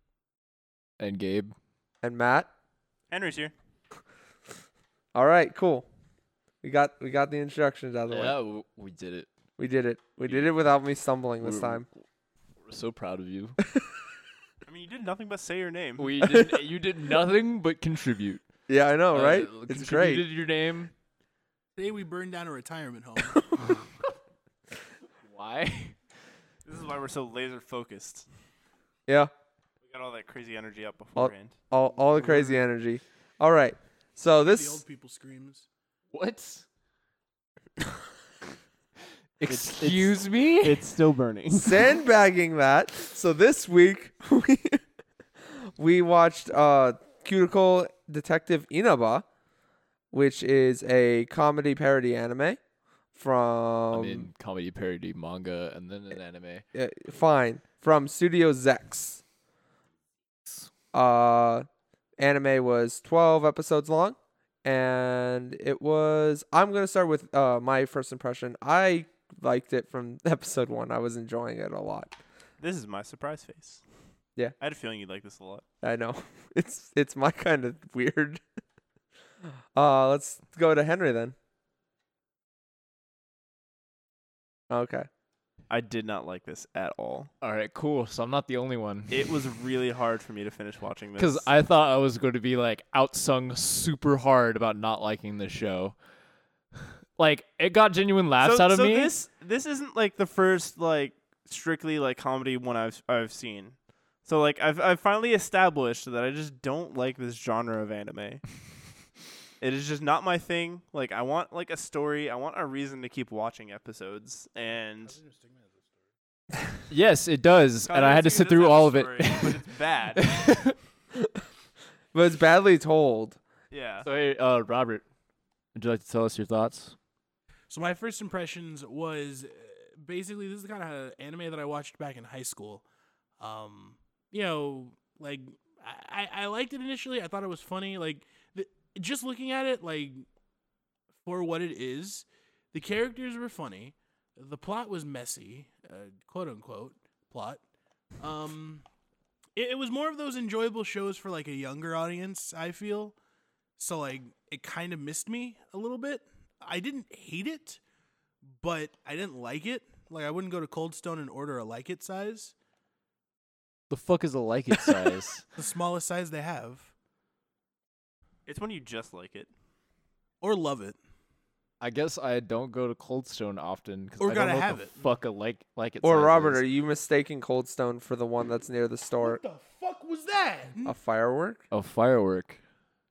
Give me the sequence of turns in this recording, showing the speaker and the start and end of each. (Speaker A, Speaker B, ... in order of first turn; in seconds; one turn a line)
Speaker A: 1.0-1.5
Speaker B: 2.0-2.5
Speaker C: 3.1-3.5
Speaker B: 5.1-5.9
Speaker B: 6.6-8.4
Speaker A: 8.1-9.3
Speaker B: 9.6-11.9
Speaker A: 11.4-11.9
Speaker A: 12.6-13.6
Speaker C: 14.7-16.2
Speaker A: 16.0-18.4
Speaker B: 16.2-16.6
Speaker B: 18.7-20.2
Speaker A: 19.1-20.9
Speaker D: 21.8-23.4
Speaker B: 23.5-23.8
Speaker A: 25.3-26.0
Speaker C: 26.6-28.3
Speaker C: 29.8-31.6
Speaker B: 31.2-34.8
Speaker D: 34.4-35.7
Speaker A: 36.1-36.6
Speaker A: 39.4-40.8
Speaker E: 39.5-41.9
Speaker B: 41.5-44.8
Speaker B: 45.5-49.2
Speaker B: 50.1-52.6
Speaker B: 53.1-54.3
Speaker A: 53.9-56.6
Speaker B: 56.8-59.2
Speaker A: 60.5-60.7
Speaker B: 60.9-61.7
Speaker B: 62.2-72.1
Speaker C: 72.6-73.8
Speaker C: 74.6-75.6
Speaker B: 75.8-78.4
Speaker B: 79.8-81.3
Speaker B: 84.7-85.1
Speaker C: 85.7-87.3
Speaker A: 87.4-89.3
Speaker C: 89.1-91.5
Speaker A: 91.2-96.0
Speaker A: 97.2-99.1
Speaker C: 98.4-108.5
Speaker C: 109.6-115.2
Speaker D: 114.7-116.1
Speaker A: 116.9-120.8
Speaker C: 117.9-120.3
Speaker B: 122.1-123.4
Speaker C: 123.7-124.1
Speaker A: 124.0-125.0
Speaker A: 125.8-127.0
Speaker D: 127.7-132.8
Speaker D: 133.4-140.3
Speaker D: 141.2-147.6
Speaker D: 148.2-148.8
Speaker D: 149.6-153.2
Speaker D: 153.8-157.8
Speaker D: 158.5-162.5
Speaker A: 163.9-165.4
Speaker D: 165.6-166.9
Speaker C: 168.5-169.5
Speaker D: 170.4-171.0
Speaker A: 171.8-176.6
Speaker D: 174.2-175.0
Speaker B: 176.0-179.4
Speaker D: 179.2-181.0
Speaker B: 180.9-181.6
Speaker A: 181.7-182.6